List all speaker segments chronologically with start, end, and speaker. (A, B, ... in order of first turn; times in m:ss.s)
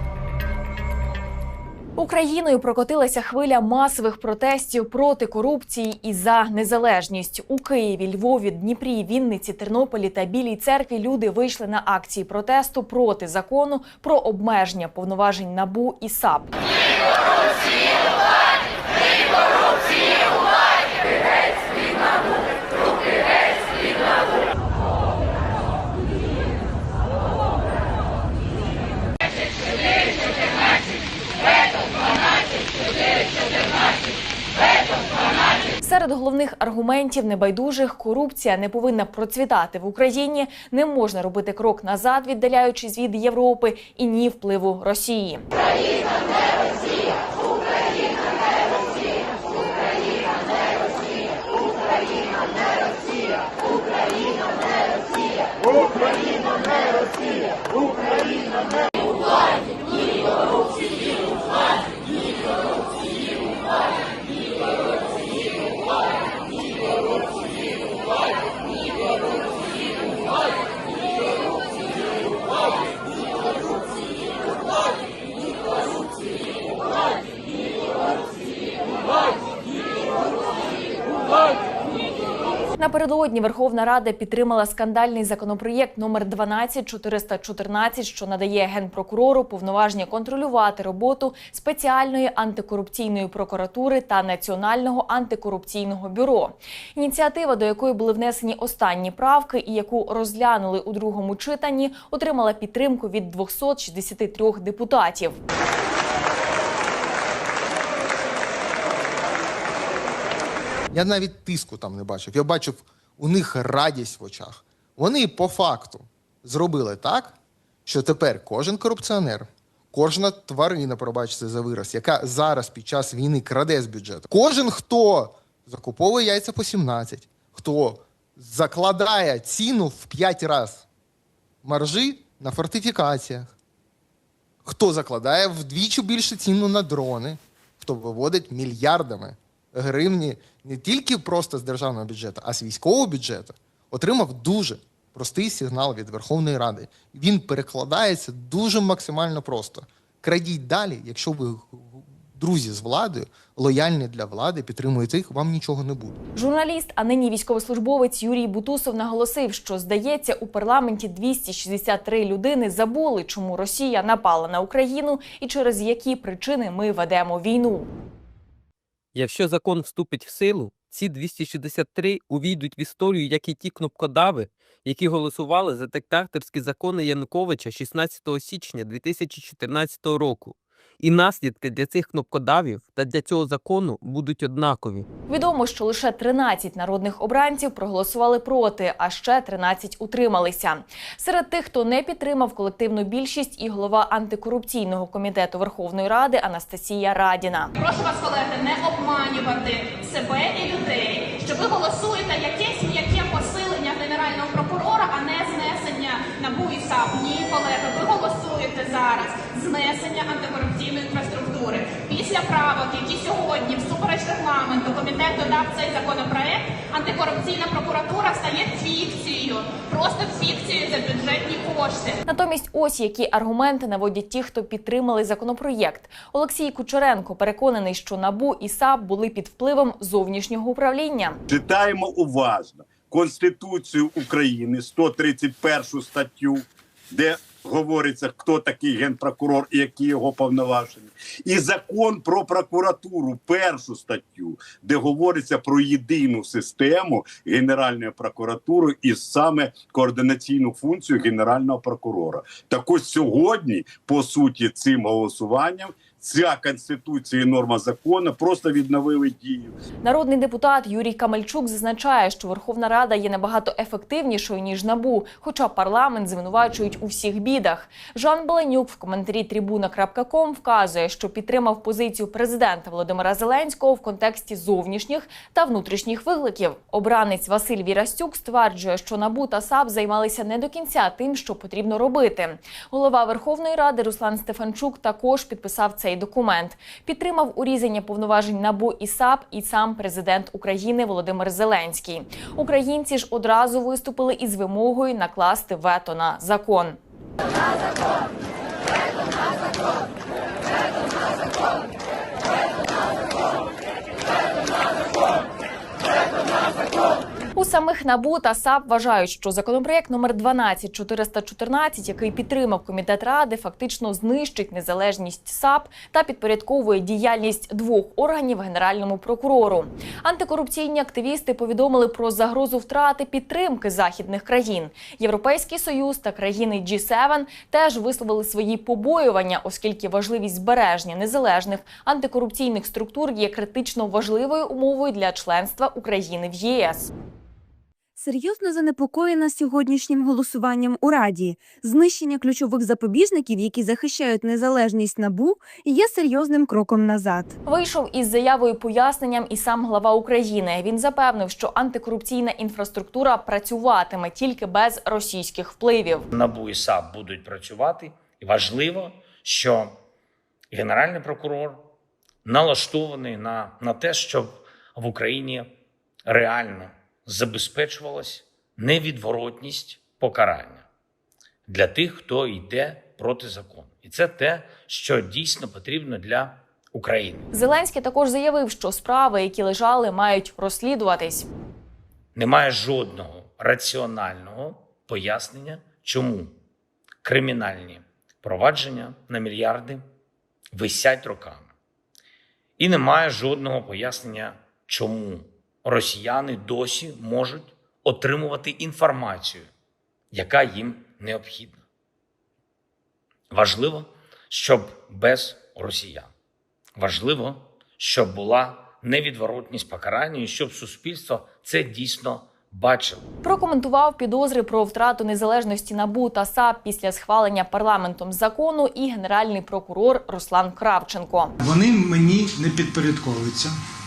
0:02.0-0:16.5 A
0:35.8-0:45.4 A
1:22.8-1:45.4 A
1:50.9-2:10.8 B
2:11.6-2:13.5 B
2:14.6-2:36.1 B
2:36.4-2:47.9 A
2:49.1-3:05.1 C
3:05.3-3:17.7 A
3:17.8-3:42.2 D
3:42.3-3:51.4 A
3:51.5-4:19.7 E
4:20.0-4:57.0 A
5:07.6-5:37.1 A
5:38.2-5:47.5 F
5:47.6-5:56.2 A
5:56.3-5:59.9 G
6:00.7-6:01.8 G
6:02.4-6:05.7 G
6:06.3-6:10.8 G
6:11.7-6:17.5 G
6:17.5-6:21.5 A
6:22.3-6:26.5 G
6:27.2-6:30.0 G
6:30.7-6:31.7 G
6:32.8-6:39.7 G
6:40.3-6:41.8 G
6:43.5-6:46.3 G
6:47.0-6:53.2 G
6:53.4-7:01.5 A
7:01.6-7:03.8 H